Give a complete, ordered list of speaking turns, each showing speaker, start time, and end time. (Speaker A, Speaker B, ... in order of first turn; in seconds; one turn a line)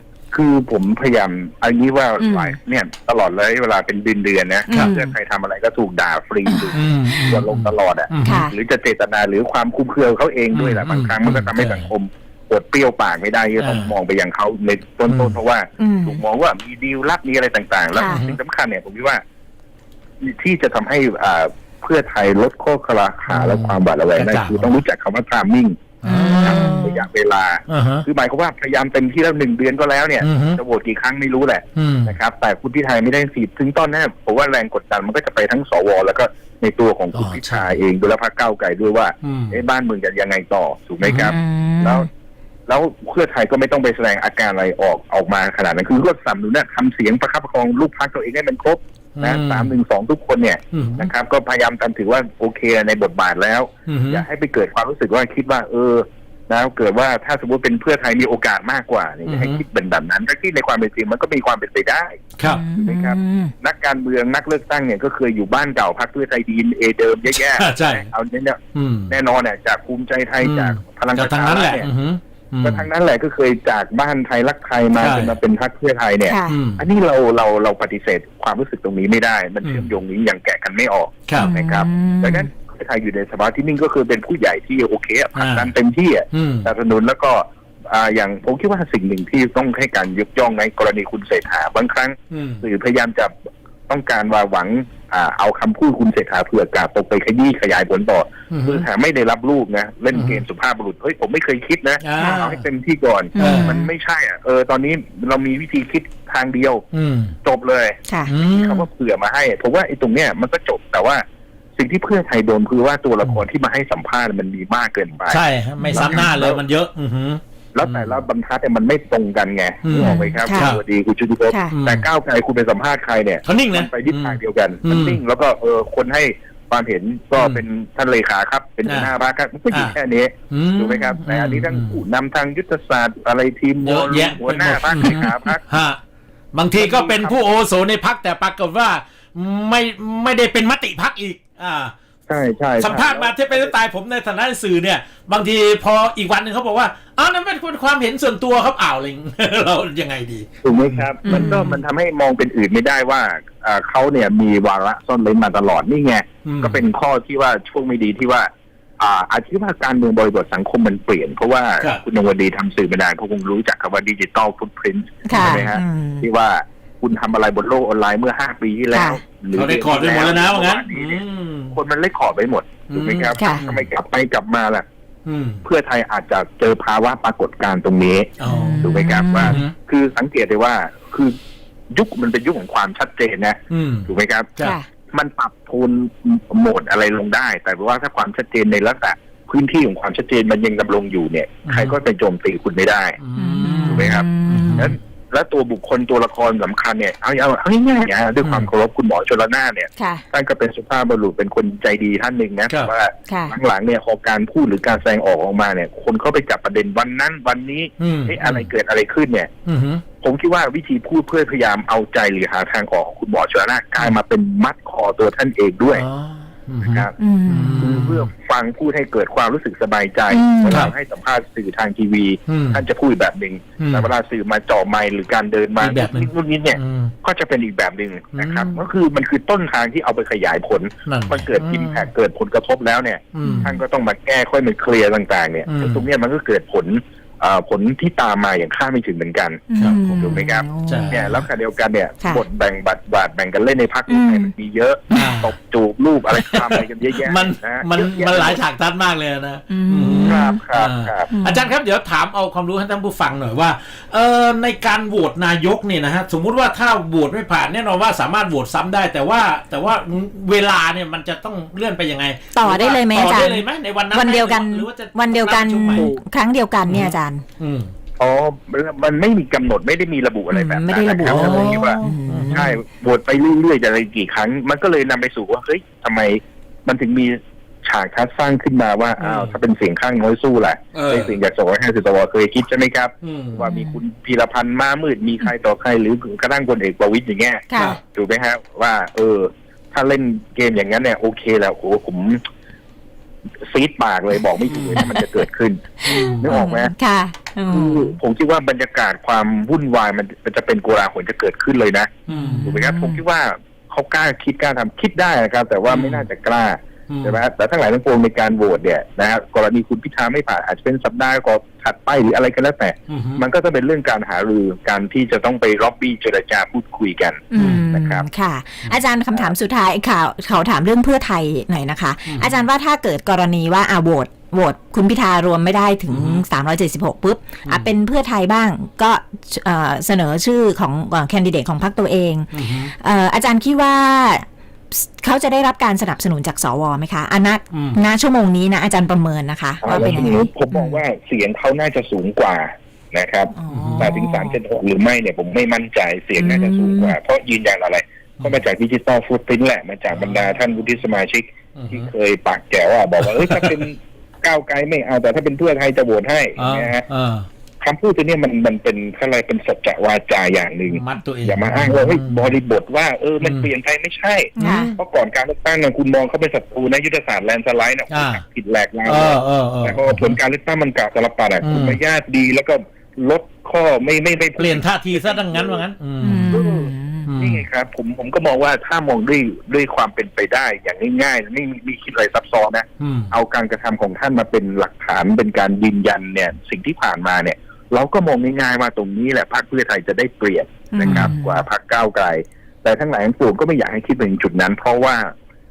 Speaker A: 0.3-19.2
Speaker B: 2.2-2.5
Speaker B: 4.7-5.1
Speaker B: 6.5-6.7
Speaker C: 6.7-8.4
Speaker B: 8.2-8.5
Speaker C: 10.5-11.9
Speaker C: 13.6-13.9
Speaker C: 15.1-15.3
Speaker B: 15.8-16.2
Speaker B: 17.9-18.2
Speaker C: 18.1-18.4
Speaker A: 20.2-25.8
Speaker C: 23.3-24.7
Speaker C: 26.0-27.1
Speaker B: 26.0-26.9
Speaker A: 26.4-42.1
Speaker C: 27.7-28.1
Speaker C: 30.2-30.6
Speaker C: 31.8-32.2
Speaker C: 37.1-37.8
Speaker C: 39.2-39.6
Speaker C: 41.0-41.3
Speaker B: 41.3-42.1
Speaker A: 42.7-71.9
Speaker C: 49.2-49.7
Speaker C: 50.7-51.1
Speaker C: 53.9-54.2
Speaker C: 59.2-59.6
Speaker C: 62.4-62.6
Speaker B: 62.4-63.5
Speaker C: 67.3-68.1
Speaker C: 68.7-69.1
Speaker C: 70.4-72.9
Speaker A: 72.6-93.3
Speaker C: 75.0-75.4
Speaker B: 76.2-76.6
Speaker C: 76.5-76.8
Speaker C: 79.6-79.9
Speaker B: 81.4-82.5
Speaker C: 85.3-85.7
Speaker C: 86.3-86.7
Speaker C: 92.3-92.6
Speaker A: 93.9-106.8
Speaker C: 98.5-98.8
Speaker C: 100.1-100.4
Speaker C: 102.0-102.6
Speaker B: 103.3-103.9
Speaker C: 103.4-103.8
Speaker C: 106.9-107.3
Speaker A: 107.4-111.2
Speaker B: 108.1-108.3
Speaker C: 108.3-108.9
Speaker A: 111.8-116.6
Speaker C: 115.2-118.2
Speaker B: 115.8-116.3
Speaker A: 117.7-135.6
Speaker C: 119.8-120.8
Speaker B: 120.0-120.7
Speaker B: 121.5-121.7
Speaker C: 121.7-122.1
Speaker C: 123.4-125.2
Speaker C: 127.3-127.6
Speaker C: 128.8-129.1
Speaker C: 130.5-132.0
Speaker C: 133.8-136.0
Speaker C: 136.5-141.9
Speaker A: 136.8-137.5
Speaker A: 142.3-143.7
Speaker C: 142.8-151.7
Speaker A: 150.6-174.8
Speaker B: 151.2-151.8
Speaker C: 156.4-156.8
Speaker B: 165.2-166.3
Speaker C: 165.3-165.7
Speaker B: 168.9-169.2
Speaker C: 169.5-171.7
Speaker C: 172.9-173.9
Speaker B: 173.4-173.6
Speaker C: 175.2-175.6
Speaker A: 175.6-181.3
Speaker C: 178.4-179.7
Speaker B: 178.4-179.6
Speaker A: 181.9-184.5
Speaker C: 183.7-184.8
Speaker B: 184.6-184.9
Speaker A: 185.1-193.2
Speaker C: 191.7-192.0
Speaker C: 193.2-195.0
Speaker B: 193.3-194.9
Speaker A: 193.9-209.5
Speaker C: 198.4-198.7
Speaker B: 200.0-200.2
Speaker B: 203.3-203.6
Speaker C: 208.0-208.7
Speaker C: 209.7-210.0
Speaker A: 210.2-216.0
Speaker C: 215.9-218.3
Speaker A: 216.8-217.1
Speaker B: 217.2-218.1
Speaker A: 217.8-248.6
Speaker B: 220.3-220.9
Speaker C: 220.7-220.9
Speaker C: 222.5-222.8
Speaker C: 223.8-224.1
Speaker C: 225.8-227.1
Speaker C: 228.3-228.8
Speaker C: 231.1-232.1
Speaker C: 233.3-233.8
Speaker B: 233.4-233.8
Speaker C: 235.7-236.1
Speaker B: 239.7-241.5
Speaker C: 239.8-241.2
Speaker B: 244.1-244.5
Speaker B: 245.1-245.5
Speaker C: 245.1-245.5
Speaker C: 246.3-266.2
Speaker B: 249.7-250.6
Speaker A: 250.3-251.3
Speaker B: 251.3-251.7
Speaker B: 262.5-267.4
Speaker C: 266.9-267.9
Speaker A: 268.2-272.0
Speaker B: 270.5-272.7
Speaker C: 271.2-272.8
Speaker A: 272.5-292.4
Speaker C: 279.2-279.6
Speaker C: 280.9-281.4
Speaker C: 283.2-283.6
Speaker B: 283.6-284.0
Speaker B: 287.7-288.0
Speaker A: 293.6-296.9
Speaker C: 294.7-295.0
Speaker B: 294.9-295.2
Speaker B: 296.0-298.2
Speaker C: 296.1-296.5
Speaker A: 297.7-318.2
Speaker C: 302.3-302.7
Speaker B: 302.3-303.2
Speaker C: 305.9-306.2
Speaker C: 307.1-307.4
Speaker C: 313.1-313.4
Speaker B: 317.5-341.0
Speaker C: 317.6-317.8
Speaker C: 322.3-322.6
Speaker C: 326.1-326.4
Speaker C: 332.5-332.9
Speaker C: 337.7-338.0
Speaker A: 339.8-357.0
Speaker C: 339.9-340.4
Speaker B: 343.5-344.6
Speaker C: 343.7-344.1
Speaker B: 346.4-347.1
Speaker C: 350.1-350.7
Speaker C: 351.8-352.1
Speaker C: 353.2-353.8
Speaker C: 356.6-357.5
Speaker A: 357.8-375.8
Speaker C: 360.9-362.5
Speaker C: 363.4-363.7
Speaker B: 364.6-364.9
Speaker C: 364.6-365.0
Speaker C: 368.1-368.4
Speaker C: 369.0-370.4
Speaker C: 371.6-372.0
Speaker C: 374.6-376.6
Speaker B: 376.2-377.3
Speaker A: 376.5-395.3
Speaker C: 377.2-377.6
Speaker C: 383.0-383.3
Speaker B: 390.9-391.6
Speaker C: 391.0-391.3